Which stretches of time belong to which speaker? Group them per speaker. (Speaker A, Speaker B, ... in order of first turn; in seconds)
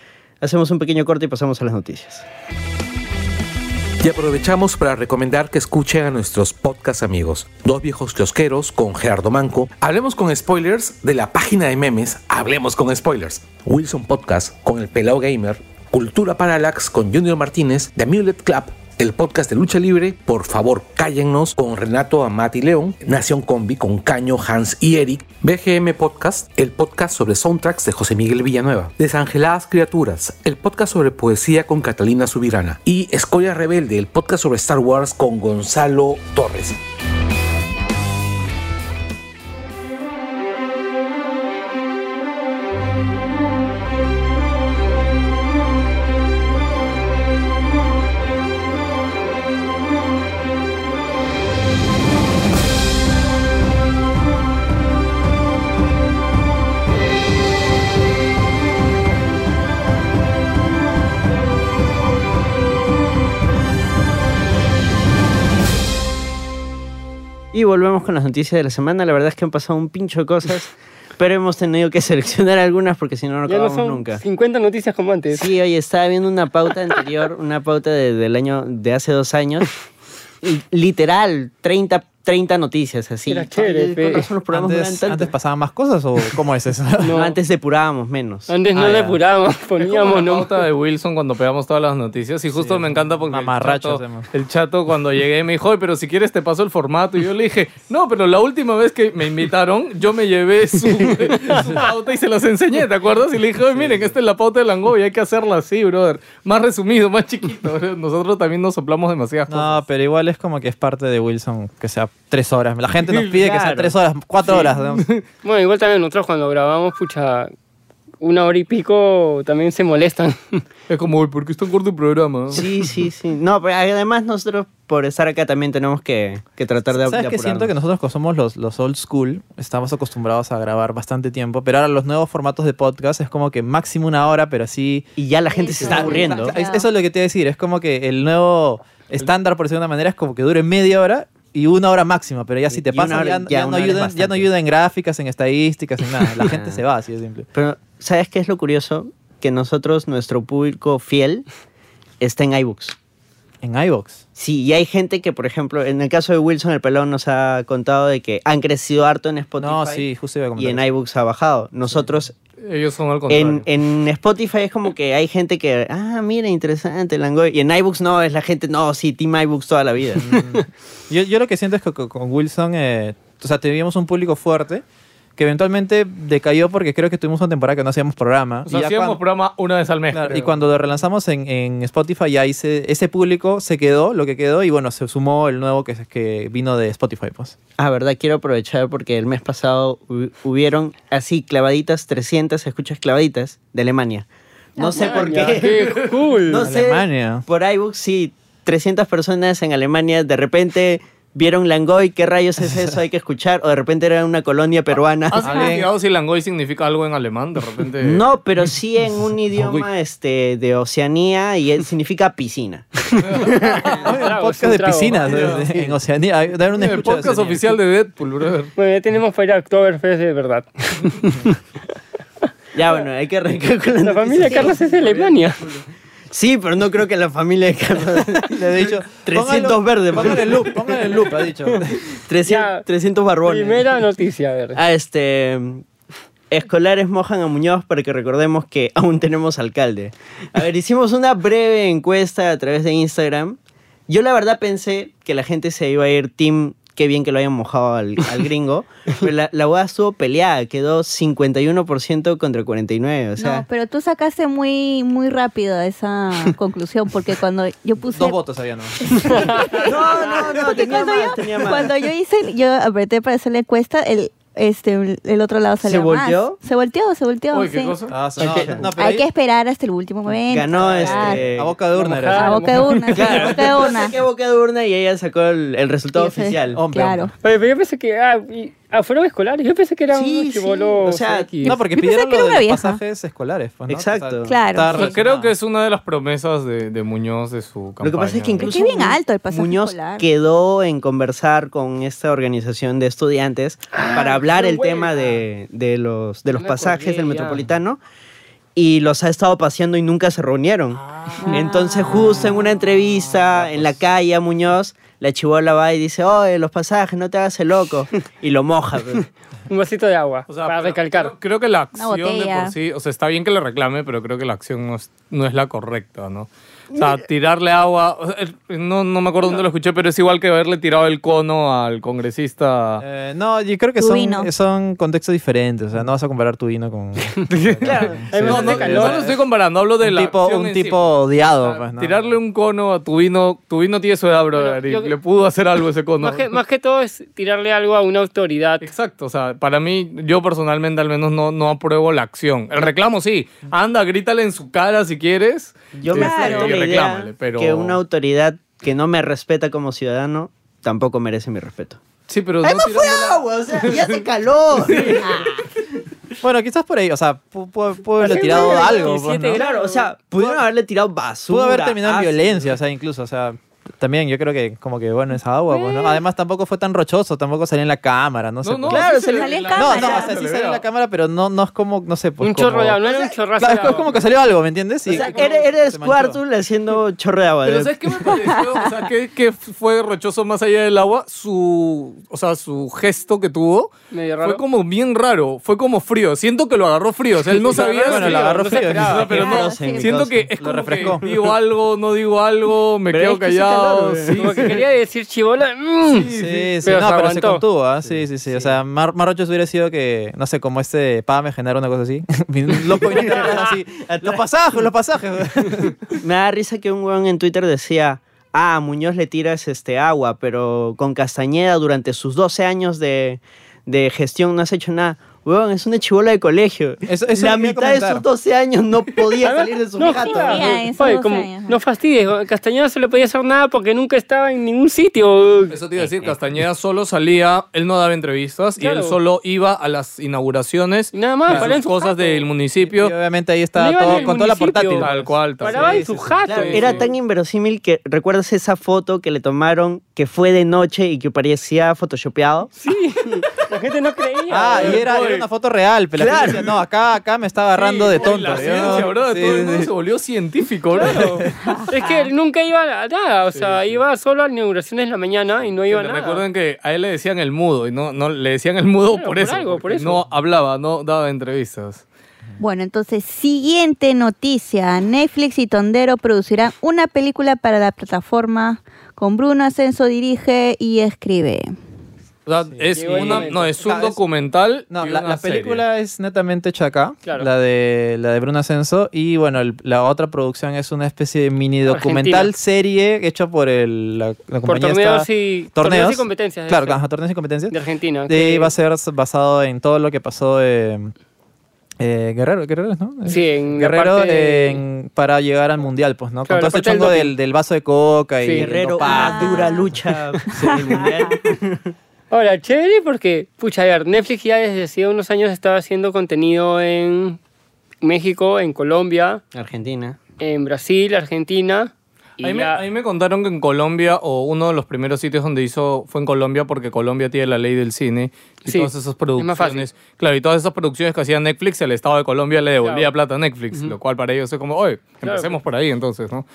Speaker A: 0.4-2.2, 67.5-74.2, 75.3-79.8, 80.4-85.3, 87.1-88.5, 113.2-113.9, 122.5-127.7, 135.2-136.5, 142.7-144.5, 146.3-146.8, 147.5-151.4, 152.2-152.9, 154.3-160.1, 160.6-162.3, 163.3-170.6, 187.8-194.3, 194.8-205.5, 208.0-214.0, 222.7-230.9, 232.3-233.9, 234.7-235.8, 236.5-253.6, 259.7-262.0, 265.8-266.6, 268.4-268.9, 270.5-271.7, 273.1-276.8, 280.1-281.5, 283.9-284.5, 288.0-298.0, 298.8-309.3, 327.8-328.6, 345.9-352.0, 352.6-355.5, 358.2-362.7, 368.9-370.1, 373.0-373.9, 375.1-378.3, 389.2-390.5, 391.0-391.3, 393.1-394.7, 403.0-404.4, 406.1-420.9, 425.9-426.4, 436.5-442.7, 446.2-446.6, 498.5-501.9, 509.5-510.2
Speaker B: 4.0-36.8
Speaker C: 73.5-75.5, 83.3-84.3, 87.0-87.3, 88.5-90.5, 115.4-117.5, 118.2-120.6, 194.9-196.7, 214.0-215.4, 218.8-221.6, 224.0-225.6, 232.4-232.8, 233.4-234.8, 271.9-273.5, 277.4-281.8, 293.9-295.4, 296.5-297.6, 309.7-311.3, 328.3-329.3, 334.5-335.1, 336.2-338.9, 358.2-360.1, 372.4-374.1, 375.1-375.6, 384.1-384.6, 387.5-389.3, 394.4-396.3, 396.8-397.6, 419.4-425.8, 428.8-429.2, 431.1-432.4, 433.8-437.1, 442.8-445.1, 448.2-449.1, 450.9-456.4, 459.1-460.2, 472.9-473.8, 481.9-482.5, 484.6-487.0, 487.7-488.7, 493.2-494.8, 496.5-497.3, 498.4-498.7, 502.3-507.4, 508.0-509.4, 510.4-512.8, 518.6-519.9, 522.8-523.1, 525.2-525.6
Speaker D: 84.5-87.2, 88.7-89.2, 92.5-94.3, 103.7-104.1, 109.5-115.1, 126.9-135.1, 135.8-147.5, 153.6-154.2, 159.6-160.8, 170.2-174.8, 175.4-179.2, 180.1-187.5, 196.6-197.4, 205.4-205.9, 213.9-217.8, 228.3-232.0, 258.0-259.4, 268.1-269.2, 270.8-272.8, 276.7-277.3, 281.6-285.5, 323.0-329.3, 330.0-332.3, 356.4-359.6, 361.5-369.1, 369.7-373.0, 373.6-376.4, 388.0-389.3, 390.6-391.2, 396.3-406.0, 417.1-418.2, 431.5-431.7, 432.8-436.3, 444.5-449.9, 451.1-451.8, 473.0-474.2, 474.9-491.1, 492.0-499.9
Speaker E: 89.8-109.8, 120.9-122.7, 162.6-163.7, 178.7-180.5, 205.3-208.2, 213.2-214.0, 215.2-215.7, 216.8-218.7, 267.5-268.1, 284.9-288.7, 301.0-301.5, 310.5-323.0, 327.5-336.5, 338.8-348.0, 352.3-354.2, 354.8-355.4, 368.6-370.8, 377.6-383.9, 384.4-394.7, 396.1-396.8, 425.7-433.1, 435.0-437.0, 444.8-445.4, 447.8-451.3, 453.5-454.0, 455.9-462.0, 472.4-475.8, 512.4-526.4
Speaker F: 135.5-136.8, 194.8-195.4, 253.4-258.4, 259.0-268.0, 268.9-271.4, 272.3-274.1, 276.1-277.3, 281.6-283.0, 284.4-285.1, 288.6-290.2, 301.4-302.5, 311.9-312.7, 324.0-324.5, 346.1-346.8, 355.2-355.6, 369.2-370.3, 378.3-378.7, 389.3-390.1, 420.1-421.8, 462.6-471.7, 499.0-499.9, 500.5-501.4